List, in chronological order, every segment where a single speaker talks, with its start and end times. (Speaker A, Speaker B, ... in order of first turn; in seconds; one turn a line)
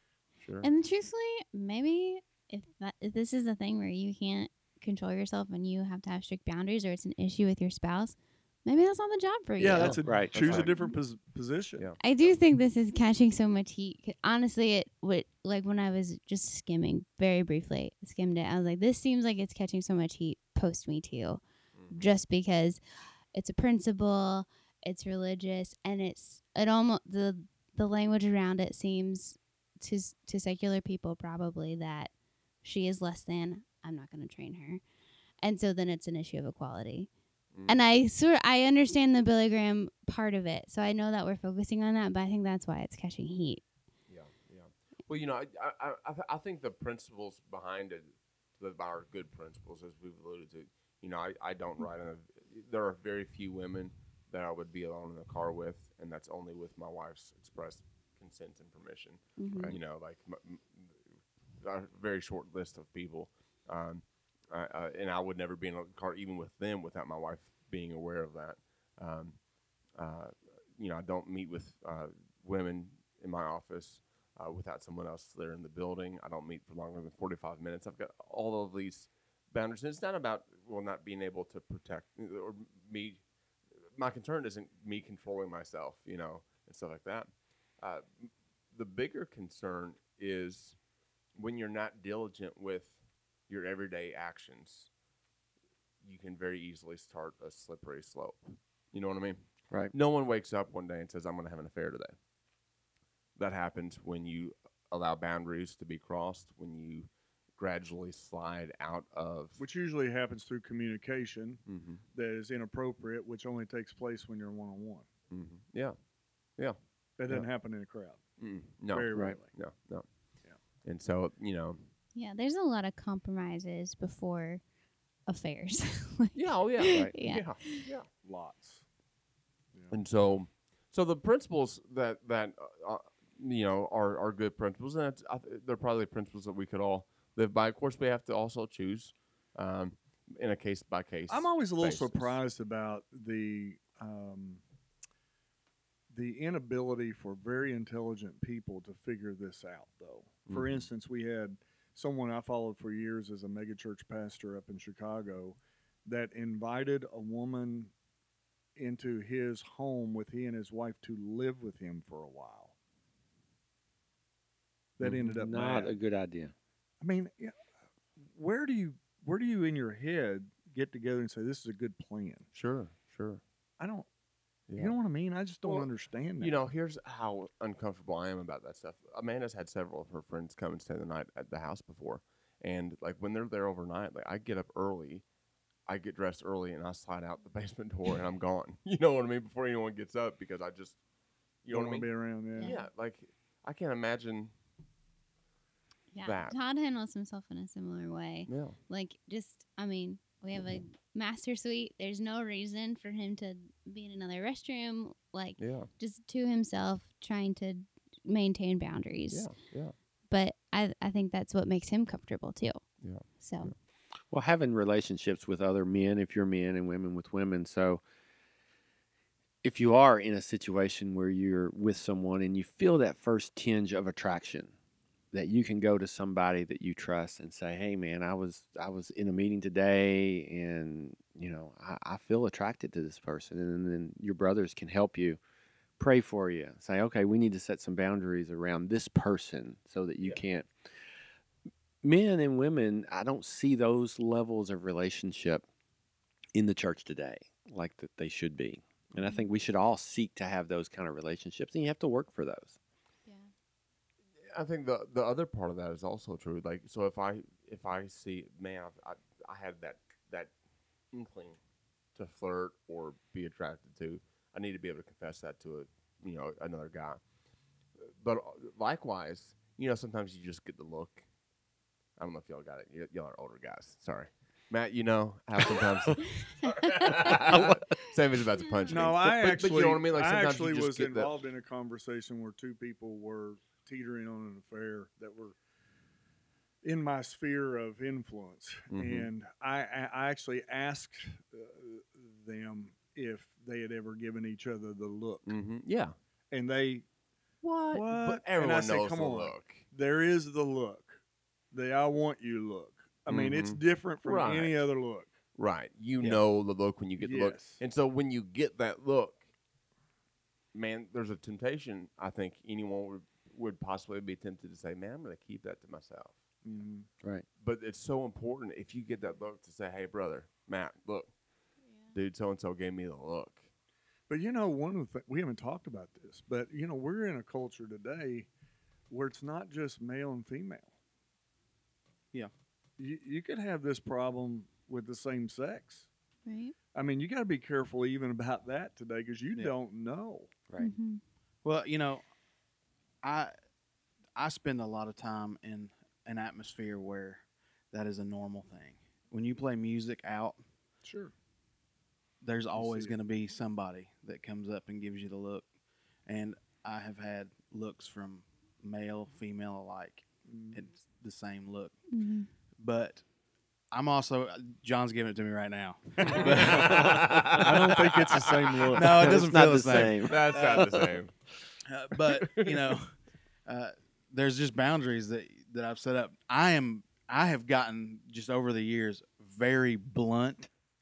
Speaker A: 0.4-0.7
Speaker B: 0.6-10.0
Speaker C: 9.6-11.9
Speaker D: 9.8-10.7
Speaker A: 9.8-10.7
Speaker A: 11.8-12.4
Speaker B: 12.0-21.4
Speaker A: 21.8-22.0
Speaker B: 21.9-22.8
Speaker B: 23.3-32.1
Speaker B: 32.6-34.8
Speaker B: 35.4-37.1
Speaker B: 37.7-43.6
Speaker A: 44.1-61.0
Speaker B: 59.4-59.7
Speaker A: 61.6-69.4
Speaker A: 70.0-83.2
Speaker A: 83.9-87.3
Speaker A: 87.8-90.8
Speaker A: 91.3-93.0
Speaker A: 93.5-94.9
Speaker A: 96.0-99.4
Speaker A: 99.9-102.1
Speaker A: 103.4-109.6
Speaker C: 109.6-115.1
Speaker A: 111.7-112.0
Speaker A: 115.3-116.0
Speaker C: 117.2-118.2
Speaker A: 118.4-120.0
Speaker C: 118.9-119.5
Speaker A: 120.8-121.8
Speaker B: 122.1-124.6
Speaker B: 125.3-127.9
Speaker A: 126.3-128.1
Speaker C: 128.2-128.8
Speaker A: 129.9-142.4
Speaker C: 141.3-144.6
Speaker C: 146.1-157.9
Speaker A: 150.5-150.9
Speaker C: 158.8-162.7
Speaker C: 165.0-165.9
Speaker A: 165.0-165.3
Speaker D: 165.2-166.5
Speaker C: 167.0-167.5
Speaker C: 168.3-172.4
Speaker A: 172.5-173.4
Speaker C: 173.8-174.1
Speaker A: 174.7-174.9
Speaker C: 174.8-176.5
Speaker A: 176.4-185.2
Speaker A: 185.9-191.0
Speaker A: 191.6-192.1
Speaker C: 191.7-192.8
Speaker B: 192.6-192.8
Speaker A: 192.6-194.5
Speaker B: 196.1-209.5
Speaker A: 196.2-196.6
Speaker A: 198.5-198.8
Speaker A: 205.6-205.9
Speaker A: 209.3-209.9
Speaker B: 210.3-212.8
Speaker A: 213.0-213.7
Speaker B: 213.4-213.7
Speaker D: 214.3-218.0
Speaker D: 219.6-224.7
Speaker D: 225.3-235.4
Speaker D: 236.0-240.9
Speaker D: 242.0-245.6
Speaker D: 246.5-252.8
Speaker A: 254.5-260.5
Speaker A: 261.1-261.6
Speaker A: 262.1-267.2
Speaker A: 268.1-271.2
Speaker A: 272.2-281.3
Speaker B: 276.4-277.4
Speaker C: 278.9-285.5
Speaker C: 286.8-295.5
Speaker A: 288.9-289.3
Speaker A: 295.4-296.1
Speaker C: 296.5-297.0
Speaker A: 297.6-299.8
Speaker C: 297.9-301.2
Speaker C: 301.7-305.3
Speaker A: 303.3-304.9
Speaker A: 305.6-309.4
Speaker C: 307.2-307.8
Speaker A: 310.7-316.4
Speaker C: 316.6-317.1
Speaker A: 317.6-321.3
Speaker B: 321.9-322.1
Speaker A: 322.1-323.6
Speaker C: 324.3-328.5
Speaker C: 329.1-330.9
Speaker C: 333.0-336.1
Speaker B: 336.4-336.7
Speaker C: 336.9-340.5
Speaker B: 340.8-341.2
Speaker E: 341.6-342.2
Speaker E: 343.2-343.5
Speaker E: 344.4-350.6
Speaker C: 351.0-351.3
Speaker E: 352.4-355.7
Speaker C: 352.8-353.1
Speaker E: 356.2-361.9
Speaker C: 360.5-360.8
Speaker B: 362.1-362.5
Speaker E: 362.8-363.2
Speaker E: 363.9-367.6
Speaker C: 366.2-367.0
Speaker A: 366.3-368.5
Speaker C: 367.5-369.4
Speaker E: 368.9-370.9
Speaker D: 369.0-371.0
Speaker A: 370.2-371.3
Speaker E: 371.9-373.1
Speaker A: 372.3-372.9
Speaker E: 373.6-380.7